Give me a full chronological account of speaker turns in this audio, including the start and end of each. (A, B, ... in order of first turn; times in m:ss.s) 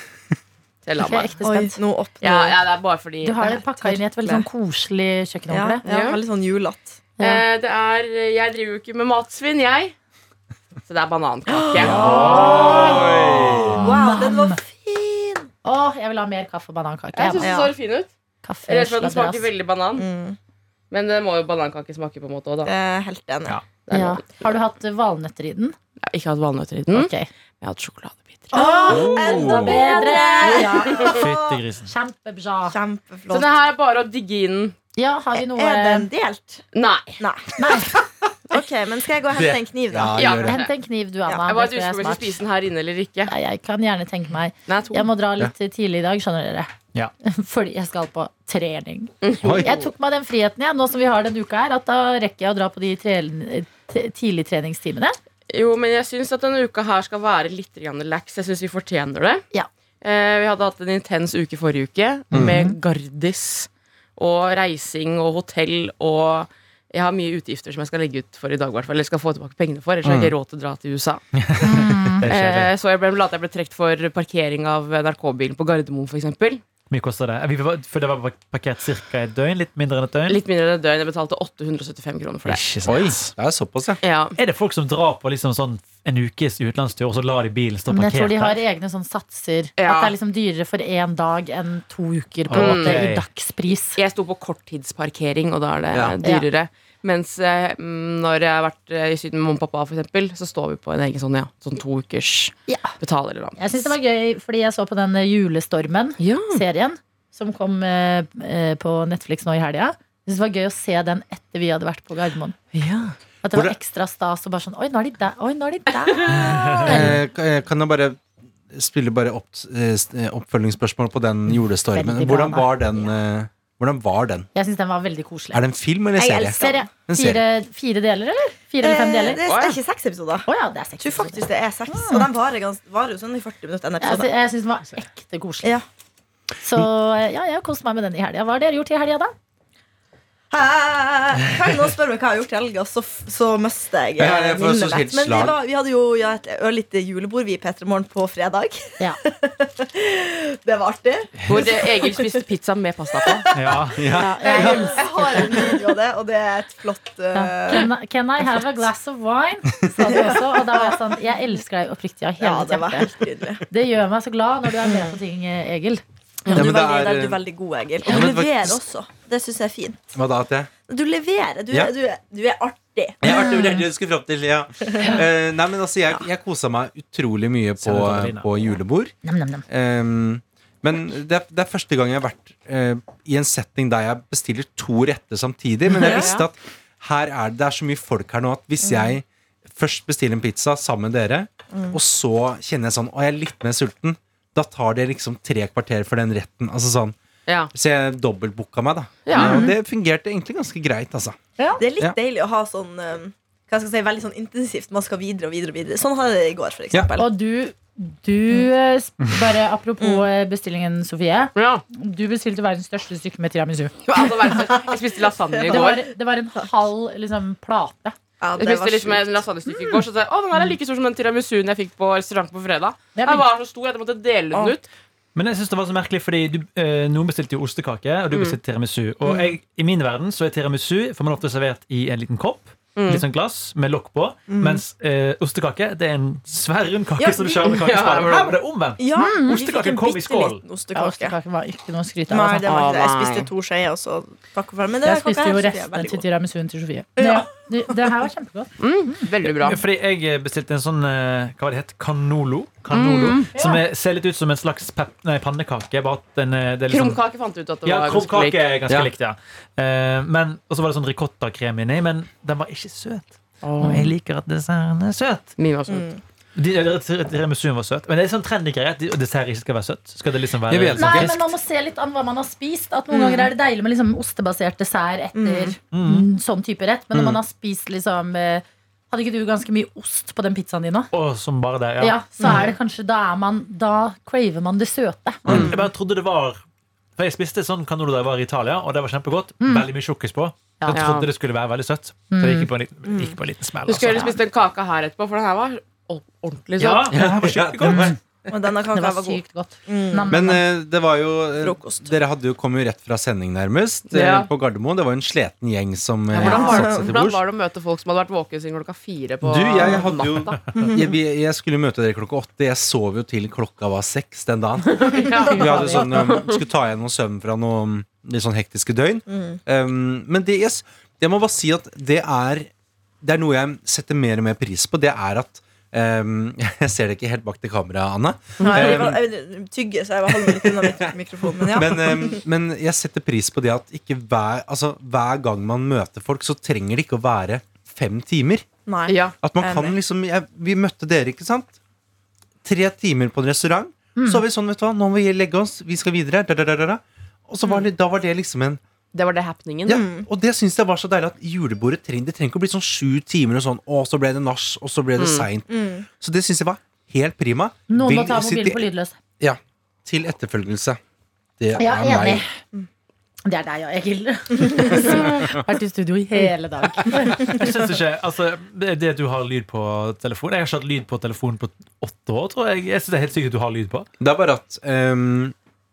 0:00.8-0:01.3 A
0:01.0-0:01.8 B
0:01.4-0:02.6 C
0:02.2-0:03.4 A
0:03.2-0:05.8 B
0:03.4-0:04.4 C
0:05.5-0:07.0 C
0:05.8-0:06.2 A
0:07.2-0:07.4 B
0:07.2-0:09.9 A
0:10.9-0:12.0 A
0:11.5-0:12.6 C
0:11.7-0:13.8 D
0:11.8-0:13.8 E
0:11.9-0:13.1 B
0:13.8-0:14.6 B
0:13.8-0:15.5 C
0:15.6-0:17.6 B
0:17.2-0:18.1 A
0:17.4-0:17.7 C
0:18.4-0:19.5 B
0:18.7-0:20.0 A
0:20.0-0:20.4 C
0:20.9-0:22.7 A
0:22.6-0:23.5 C
0:23.9-0:24.2 A
0:23.9-0:25.7 B
0:26.1-0:28.5 A
0:26.9-0:27.3 B
0:28.5-0:31.1 B
0:28.5-0:31.6 C
0:28.8-0:29.8 D
0:31.1-0:31.9 E
0:31.8-0:32.8 B
0:32.7-0:33.5 C
0:33.3-0:34.8 A
0:35.0-0:36.1 B
0:35.3-0:36.7 C
0:36.7-0:37.2 A
0:37.2-0:37.6 C
0:37.6-0:37.9 B
0:38.5-0:40.3 C
0:39.3-0:40.6 D
0:40.1-0:40.7 A
0:40.4-0:42.4 B
0:41.3-0:43.3 A
0:43.3-0:55.2 B
0:44.7-0:45.1 A
0:49.2-0:49.9 A
0:49.4-0:49.7 D
0:55.5-0:59.5 A
1:00.0-1:11.2 A
1:02.4-1:02.8 B
1:10.0-1:10.3 D
1:11.4-1:12.7 E
1:11.6-1:12.2 B
1:12.2-1:16.6 A
1:16.9-1:20.4 E
1:20.3-1:22.8 A
1:22.4-1:23.3 E
1:22.8-1:24.0 D
1:24.0-1:24.4 A
1:24.4-1:28.6 E
1:27.9-1:34.0 B
1:29.8-1:30.1 A
1:32.5-1:33.2 E
1:32.5-1:33.0 A
1:33.9-1:44.0 A
1:42.7-1:42.9 B
1:43.6-1:52.6 B
1:46.2-1:46.6 A
1:52.7-1:53.1 A
1:53.4-1:57.2 B
1:53.4-1:53.8 D
1:56.3-1:56.8 C
1:56.4-1:57.1 E
1:56.8-2:04.5 D
2:01.9-2:03.1 B
2:04.5-2:05.6 B
2:05.5-2:07.4 D
2:06.2-2:06.9 C
2:06.6-2:09.4 B
2:08.8-2:10.5 C
2:09.2-2:09.8 A
2:10.4-2:12.3 B
2:11.0-2:14.3 C
2:14.0-2:15.8 B
2:16.6-2:19.3 B
2:20.5-2:32.3 C
2:24.2-2:25.6 D
2:31.5-2:33.5 A
2:33.2-2:33.8 C
2:33.5-2:34.0 E
2:34.0-2:34.9 D
2:34.1-2:35.8 B
2:34.4-2:37.9 C
2:34.5-2:34.8 A
2:37.3-2:43.2 B
2:40.1-2:41.1 C
2:42.4-2:43.6 C
2:43.7-2:46.0 B
2:44.8-2:45.2 C
2:46.5-2:50.1 C
2:46.5-2:47.4 D
2:48.0-2:48.8 D
2:50.1-2:50.7 D
2:50.9-2:53.4 C
2:53.2-2:59.1 D
2:53.3-2:53.8 B
2:57.8-2:58.5 E
2:59.2-2:59.6 B
2:59.7-3:17.2 D
3:06.0-3:06.3 C
3:06.0-3:06.4 A
3:08.8-3:09.1 C
3:11.7-3:12.0 C
3:17.7-3:21.4 D
3:19.2-3:19.6 A
3:19.4-3:19.7 C
3:21.6-3:21.8 B
3:21.8-3:27.3 C
3:27.2-3:34.6 B
3:30.0-3:30.3 C
3:31.5-3:31.8 A
3:34.0-3:36.0 A
3:34.5-3:36.0 C
3:35.7-3:38.1 B
3:38.4-3:39.4 C
3:38.6-3:44.9 A
3:39.7-3:40.0 B
3:43.2-3:43.4 B
3:45.3-4:00.6 E
3:48.3-3:48.6 A
3:49.2-3:49.5 C
3:52.9-3:53.2 A
3:54.5-3:54.8 C
3:57.2-3:57.7 C
3:57.6-3:58.6 A
3:59.0-4:01.4 C
3:59.2-3:59.6 B
4:00.9-4:02.7 B
4:02.3-4:06.2 C
4:02.7-4:03.5 A
4:05.0-4:09.2 B
4:07.2-4:07.5 C
4:08.8-4:09.8 A
4:09.6-4:17.2 E
4:12.9-4:13.4 A
4:13.5-4:13.8 B
4:16.9-4:18.6 A
4:17.8-4:25.6 E
4:23.6-4:24.1 A
4:25.6-4:26.1 A
4:25.9-4:26.2 C
4:26.5-4:31.5 E
4:30.7-4:31.4 D
4:31.0-4:41.1 B
4:33.1-4:33.4 A
4:35.3-4:35.8 C
4:35.9-4:36.3 E
4:37.1-4:37.4 D
4:41.1-4:42.2 E
4:42.0-4:45.5 B
4:42.4-4:42.7 C
4:45.5-4:45.8 D
4:45.5-4:45.9 C
4:45.5-4:46.6 E
4:47.2-4:54.3 E
4:49.6-4:49.9 B
4:50.9-4:51.3 A
4:52.3-4:52.7 B
4:53.1-4:53.3 C
4:53.9-4:57.1 A
4:56.8-4:58.2 E
4:57.1-4:58.2 D
4:58.5-5:00.4 C
4:58.9-5:00.6 B
5:00.3-5:07.4 D
5:01.6-5:02.2 C
5:04.1-5:04.5 A
5:06.3-5:10.6 A
5:06.4-5:07.1 C
5:09.4-5:22.7 D
5:10.8-5:11.1 C
5:14.8-5:16.6 A
5:15.2-5:16.3 C
5:15.4-5:16.1 B
5:19.3-5:19.6 C
5:23.2-5:29.2 D
5:28.6-5:29.1 A
5:28.6-5:32.4 C
5:30.3-5:38.6 D
5:38.8-5:39.9 C
5:39.1-5:39.3 A
5:39.4-5:41.8 D
5:42.6-5:48.8 D
5:44.2-5:44.4 B
5:49.1-5:50.0 A
5:49.9-5:50.3 C
5:50.2-5:58.8 D
5:55.2-5:55.5 A
5:55.7-5:56.0 C
5:57.9-5:59.2 B
5:59.4-6:01.0 D
6:01.6-6:02.4 D
6:01.8-6:02.6 B
6:03.4-6:07.6 B
6:04.7-6:05.1 C
6:07.4-6:14.0 E
6:14.2-6:15.5 D